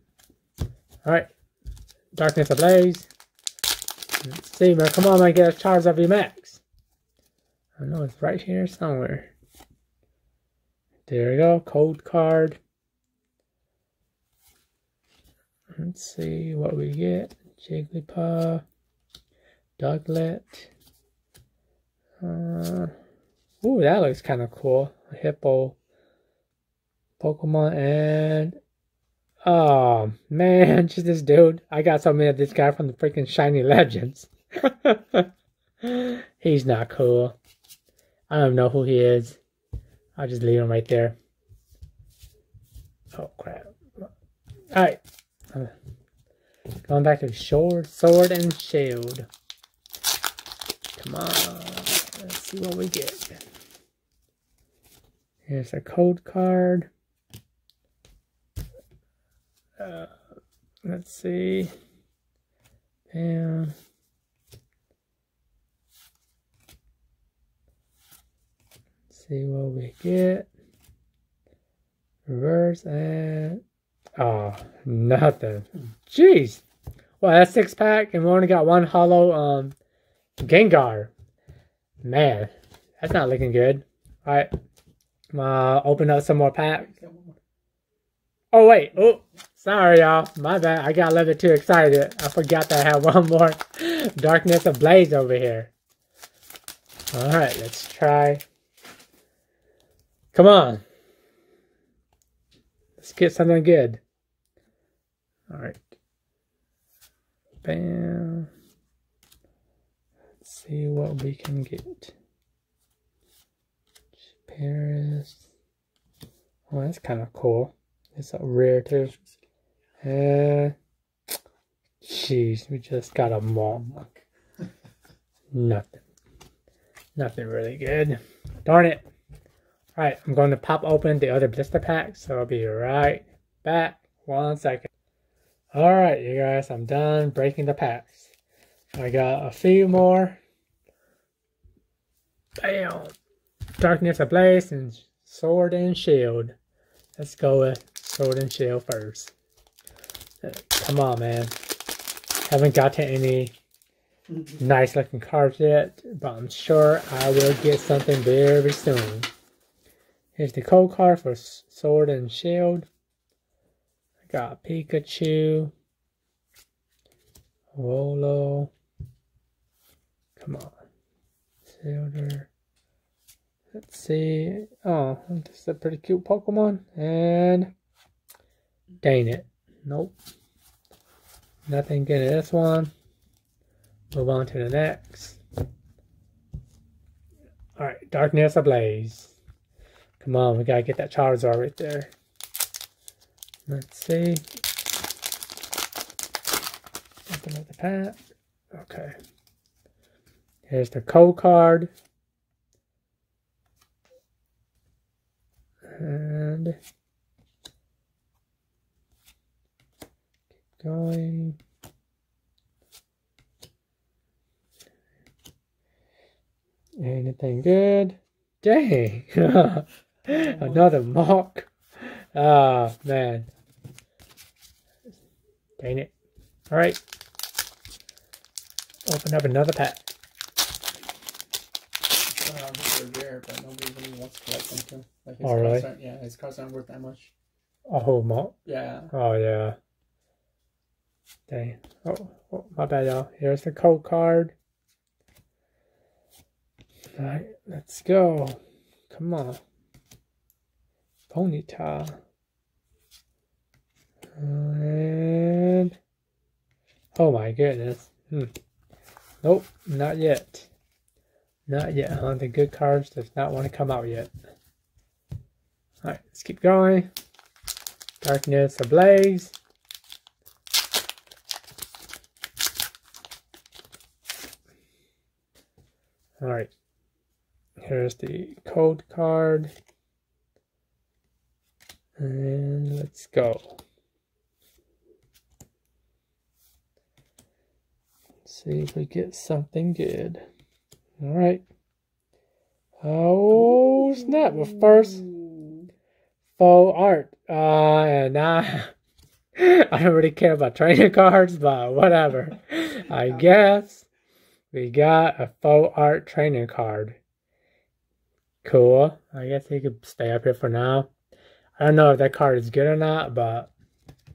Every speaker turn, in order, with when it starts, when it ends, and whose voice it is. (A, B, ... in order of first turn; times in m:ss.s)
0:01.0-0:01.3 A
0:02.1-0:03.1 A
0:04.2-0:06.6 A
0:07.8-0:09.3 A
0:11.1-0:12.6 A
0:15.7-0:18.6 A
0:19.8-0:20.7 A
0:22.2-0:22.9 A
0:23.6-0:25.8 A
0:27.2-0:28.6 A
0:29.4-0:35.3 A
0:35.8-0:37.4 A
0:38.3-0:39.4 A
0:40.2-0:41.2 A
0:43.1-0:44.1 A
0:44.7-0:45.0 A
0:46.9-0:49.3 A
0:51.0-0:53.4 A
0:55.5-0:56.9 A
0:59.8-1:00.1 A
1:00.8-1:01.7 A
1:03.1-1:03.7 A
1:09.1-1:10.5 A
1:12.3-1:13.6 A
1:14.2-1:16.6 A
1:17.2-1:19.7 A
1:20.4-1:21.1 A
1:22.0-1:24.5 A
1:25.3-1:26.9 A
1:26.7-1:27.4 B
1:28.5-1:35.7 A
1:37.1-1:38.4 A
1:40.3-1:40.8 A
1:43.0-1:44.0 A
1:45.5-1:45.9 A
1:47.6-1:48.5 A
1:50.4-1:52.1 A
1:54.5-1:55.4 A
1:56.7-1:59.1 A
2:00.0-2:00.7 A
2:02.0-2:03.9 A
2:03.6-2:04.7 B
2:05.5-2:06.0 A
2:07.2-2:09.1 A
2:10.0-2:14.9 A
2:15.7-2:18.3 A
2:18.9-2:20.4 A
2:22.6-2:23.1 A
2:23.8-2:26.6 A
2:27.2-2:29.3 A
2:30.4-2:31.5 A
2:32.5-2:33.5 A
2:34.6-2:39.3 A
2:40.4-2:42.9 A
2:44.3-2:45.7 A
2:47.7-2:48.7 A
2:50.4-2:50.8 A
2:51.7-2:52.5 A
2:53.7-2:57.7 A
2:59.0-3:00.2 A
3:01.7-3:02.9 A
3:04.1-3:05.4 A
3:07.8-3:09.3 A
3:10.2-3:12.1 A
3:13.7-3:14.4 A
3:17.3-3:18.2 A
3:18.7-3:19.1 A
3:20.7-3:21.9 A
3:25.9-3:26.8 A
3:30.8-3:31.6 A
3:37.0-3:41.7 A
3:40.3-3:40.8 B
3:42.3-3:43.5 A
3:45.8-3:46.1 A
3:46.7-3:47.0 A
3:49.1-3:50.0 A
3:52.3-3:57.3 B
3:55.4-3:55.9 A
3:57.9-3:58.6 A
3:58.6-3:59.1 B
3:59.1-3:59.8 A
4:01.5-4:04.5 A
4:07.2-4:08.6 A
4:09.1-4:09.6 A
4:11.3-4:12.2 A
4:14.4-4:16.0 A
4:17.2-4:18.5 A
4:19.4-4:20.7 A
4:21.7-4:24.3 A
4:26.0-4:27.1 A
4:28.2-4:29.5 A
4:36.4-4:36.7 A
4:37.8-4:39.7 A
4:42.2-4:43.8 A
4:48.4-4:50.4 A
4:51.2-4:51.6 A
4:53.0-4:55.3 A
4:53.6-4:55.6 B
4:56.6-4:58.9 A
4:59.6-5:04.0 A
5:04.7-5:07.2 A
5:08.6-5:11.1 A
5:11.8-5:13.7 A